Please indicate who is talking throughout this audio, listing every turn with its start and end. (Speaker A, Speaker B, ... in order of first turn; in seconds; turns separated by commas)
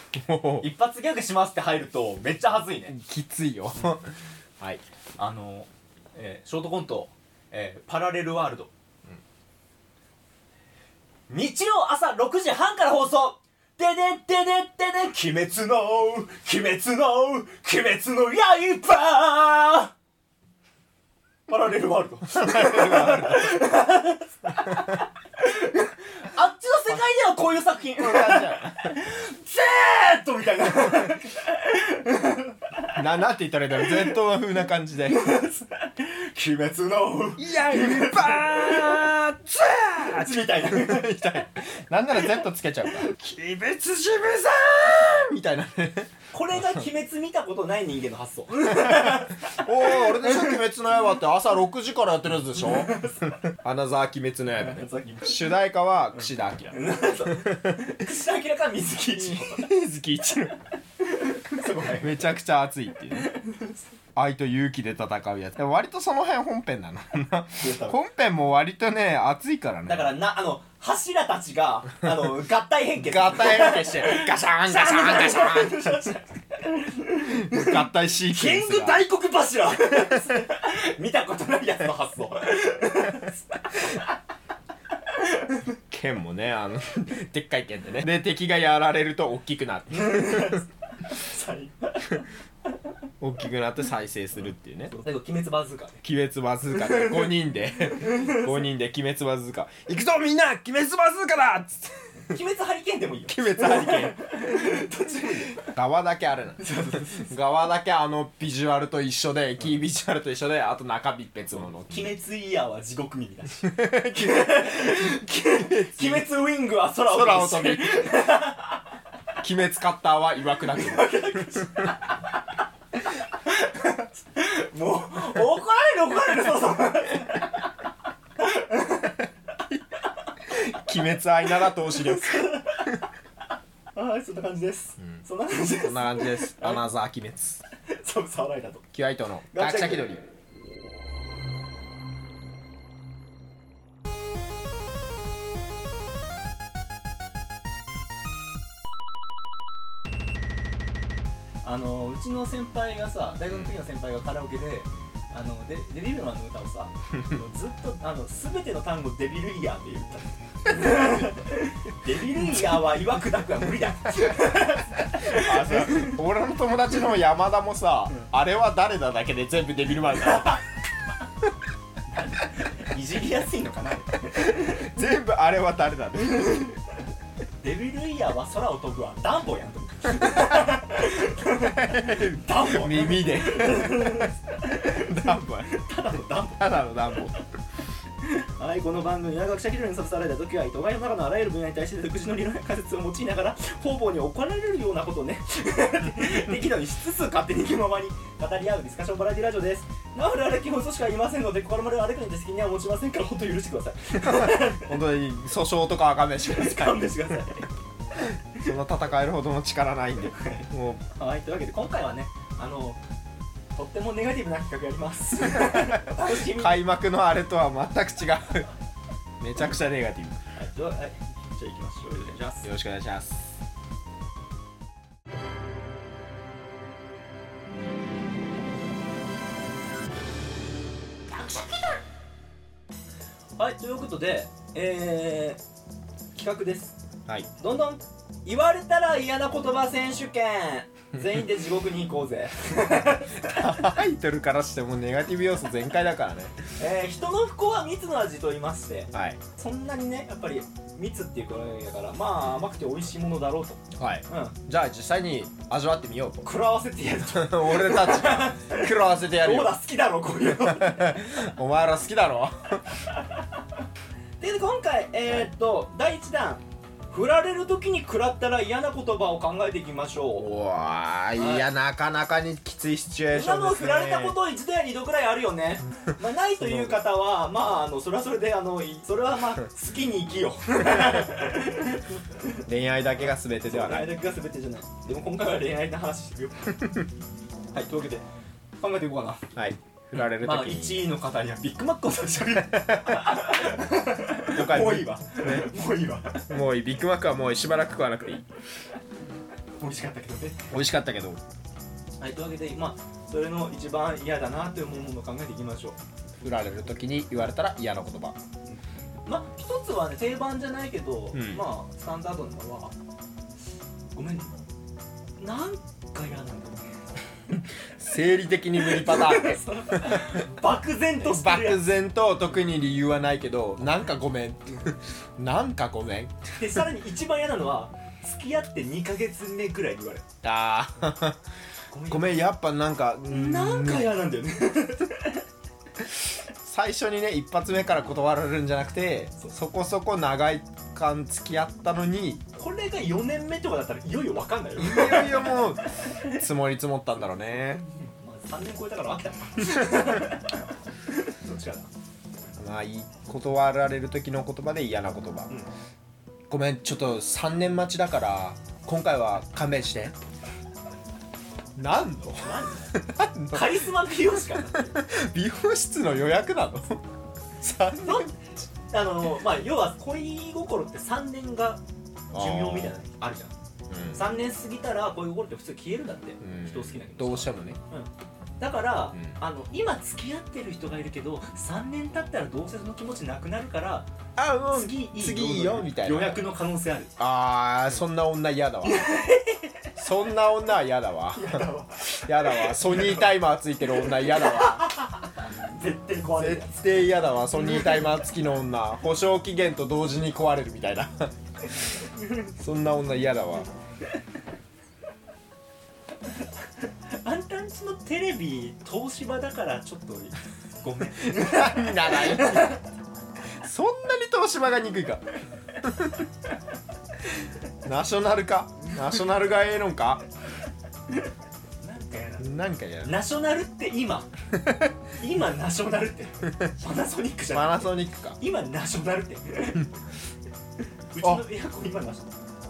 Speaker A: 0.2-0.7, Speaker B: 0.6-3.0, Speaker A: 2.9-4.8, Speaker B: 5.2-8.7, Speaker B: 11.3-19.9, Speaker B: 21.5-33.0, Speaker A: 22.3-23.6, Speaker A: 28.0-29.0, Speaker A: 32.9-35.3, Speaker B: 35.1-39.1, Speaker A: 37.4-46.1, Speaker B: 39.9-41.2, Speaker B: 46.3-50.6, Speaker A: 48.8-58.0, Speaker B: 52.6-53.4, Speaker B: 54.5-55.6, Speaker B: 56.2-59.7, Speaker A: 59.2-60.6, Speaker B: 61.0-62.2, Speaker A: 61.9-63.3, Speaker B: 63.3-63.7, Speaker A: 64.2-70.2, Speaker B: 67.6-68.0, Speaker B: 69.9-84.0, Speaker A: 73.0-76.1, Speaker A: 77.2-79.1, Speaker B: 85.1-85.7, Speaker A: 85.9-90.6, Speaker B: 89.9-92.3, Speaker A: 93.2-95.0, Speaker B: 94.9-96.0, Speaker A: 96.0-102.1, Speaker B: 96.7-97.3, Speaker B: 98.0-98.5, Speaker B: 102.3-105.7, Speaker A: 103.3-112.1, Speaker B: 106.6-107.3, Speaker B: 111.9-118.8, Speaker A: 113.6-116.3, Speaker A: 117.1-118.2, Speaker A: 119.4-121.7, Speaker B: 120.7-122.4, Speaker B: 123.4-127.7, Speaker B: 128.4-129.2, Speaker A: 130.4-133.0, Speaker B: 131.7-133.1, Speaker B: 133.9-136.8, Speaker A: 135.6-137.6, Speaker B: 137.9-138.9, Speaker A: 138.9-140.2, Speaker B: 139.5-140.2, Speaker B: 151.6-166.2, Speaker A: 165.2-170.6, Speaker B: 172.1-174.9, Speaker A: 174.4-176.7, Speaker B: 176.4-176.7, Speaker B: 177.6-187.3, Speaker A: 181.6-185.8, Speaker A: 186.6-187.4, Speaker B: 188.2-204.9, Speaker A: 204.2-207.3, Speaker B: 206.4-208.7, Speaker A: 208.2-211.0, Speaker B: 210.3-213.0, Speaker B: 213.8-216.8, Speaker A: 215.6-218.7, Speaker A: 219.4-220.4, Speaker B: 220.6-222.7, Speaker A: 222.6-223.5, Speaker B: 231.4-231.9, Speaker B: 233.6-235.6, Speaker B: 236.3-237.0, Speaker B: 237.6-243.8, Speaker A: 243.5-246.6, Speaker B: 246.8-254.6, Speaker A: 249.1-249.4, Speaker A: 254.0-256.5, Speaker B: 256.4-261.4, Speaker A: 257.3-259.8, Speaker A: 260.4-262.8, Speaker B: 264.4-270.5, Speaker A: 270.4-274.4, Speaker B: 271.4-271.7, Speaker B: 273.3-282.6, Speaker A: 276.6-277.0, Speaker A: 282.6-284.1, Speaker B: 283.6-287.0, Speaker B: 287.7-288.3, Speaker B: 288.8-289.5, Speaker A: 289.6-291.1, Speaker B: 290.2-296.5, Speaker A: 292.7-293.6, Speaker A: 294.5-295.7, Speaker A: 296.5-298.5, Speaker B: 299.8-300.8, Speaker A: 300.7-301.4, Speaker B: 302.2-306.0, Speaker A: 306.4-308.4, Speaker B: 308.7-312.9, Speaker A: 311.3-311.6, Speaker B: 314.1-314.6, Speaker B: 315.4-316.9, Speaker A: 317.9-320.5, Speaker B: 318.8-321.9, Speaker A: 321.2-326.8, Speaker B: 326.6-330.2, Speaker A: 330.4-331.4, Speaker B: 331.9-332.4, Speaker A: 332.1-334.1, Speaker B: 333.3-335.4, Speaker A: 336.6-342.4, Speaker B: 342.5-346.4, Speaker A: 344.8-347.9, Speaker B: 347.8-351.9, Speaker A: 352.6-355.5, Speaker A: 356.5-360.2, Speaker A: 361.8-367.0, Speaker B: 362.4-365.0, Speaker A: 367.6-368.5, Speaker B: 368.0-368.3, Speaker B: 368.9-371.8, Speaker A: 372.3-373.0, Speaker B: 372.3-373.6, Speaker A: 373.9-374.2, Speaker B: 374.1-384.1, Speaker A: 376.4-377.8, Speaker A: 384.4-386.5, Speaker B: 384.7-387.1, Speaker A: 387.2-389.2, Speaker B: 388.8-389.9, Speaker A: 390.0-394.9, Speaker B: 391.3-393.3, Speaker B: 394.0-398.0, Speaker A: 396.3-401.3, Speaker A: 402.6-403.7, Speaker B: 407.1-412.8, Speaker A: 411.2-412.8, Speaker A: 413.6-415.2, Speaker A: 415.8-416.3, Speaker A: 417.8-420.2, Speaker B: 421.8-424.3, Speaker A: 422.4-423.2, Speaker A: 424.6-424.9, Speaker B: 425.2-429.9, Speaker A: 427.5-428.4, Speaker B: 431.1-432.4